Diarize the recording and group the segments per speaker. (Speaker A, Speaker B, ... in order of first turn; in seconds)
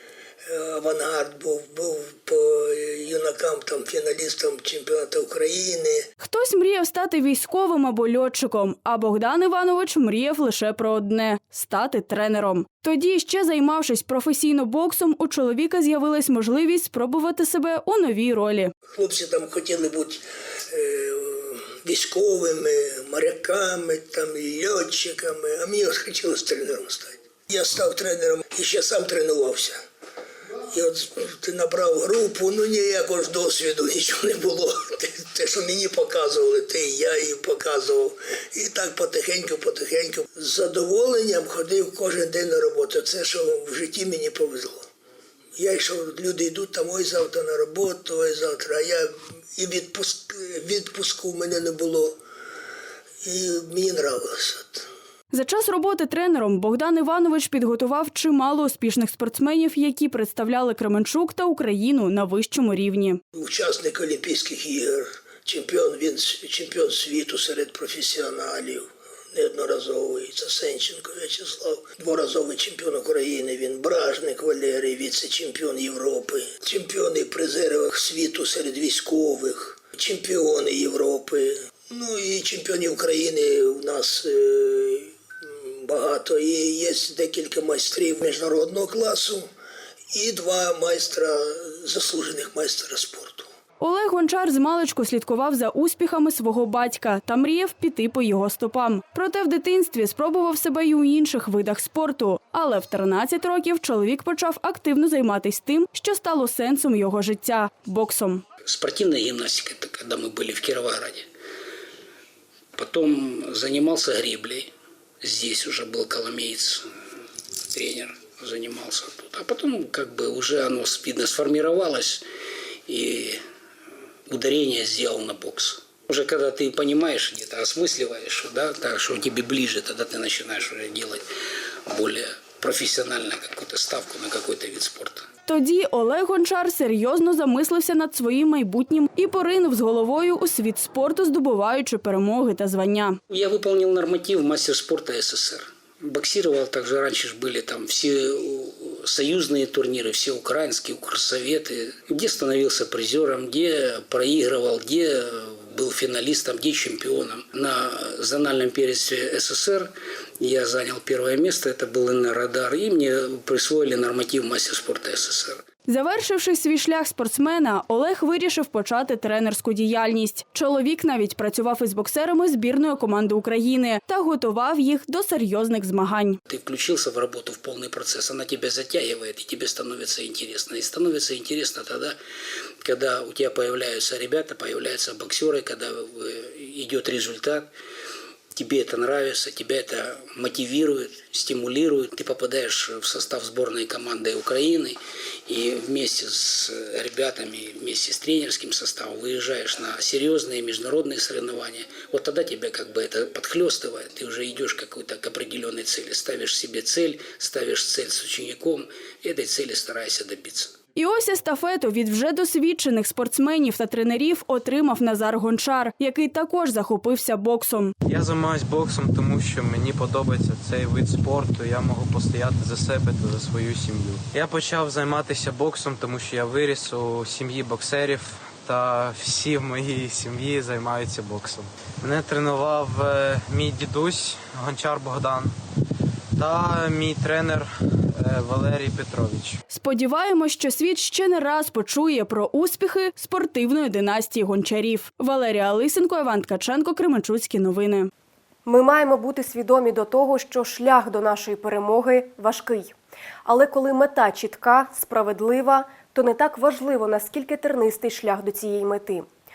Speaker A: 0.4-6.0, 18.9-29.8, 30.7-44.8, 45.5-52.2, 53.2-54.9, 63.3-89.5, 90.1-93.5
Speaker B: 6.2-18.7, 55.3-63.2, 93.8-108.4, 135.4-143.2, 165.9-176.4, 210.9-217.9, 239.7-248.1
Speaker C: 108.7-111.3, 112.7-114.7, 115.2-116.9, 117.7-122.2, 122.9-123.4, 124.3-131.2, 131.9-135.3, 143.3-165.6, 176.4-182.2, 182.8-187.7, 188.5-210.7
Speaker D: 218.0-235.5, 236.3-239.6
Speaker E: 248.6-259.3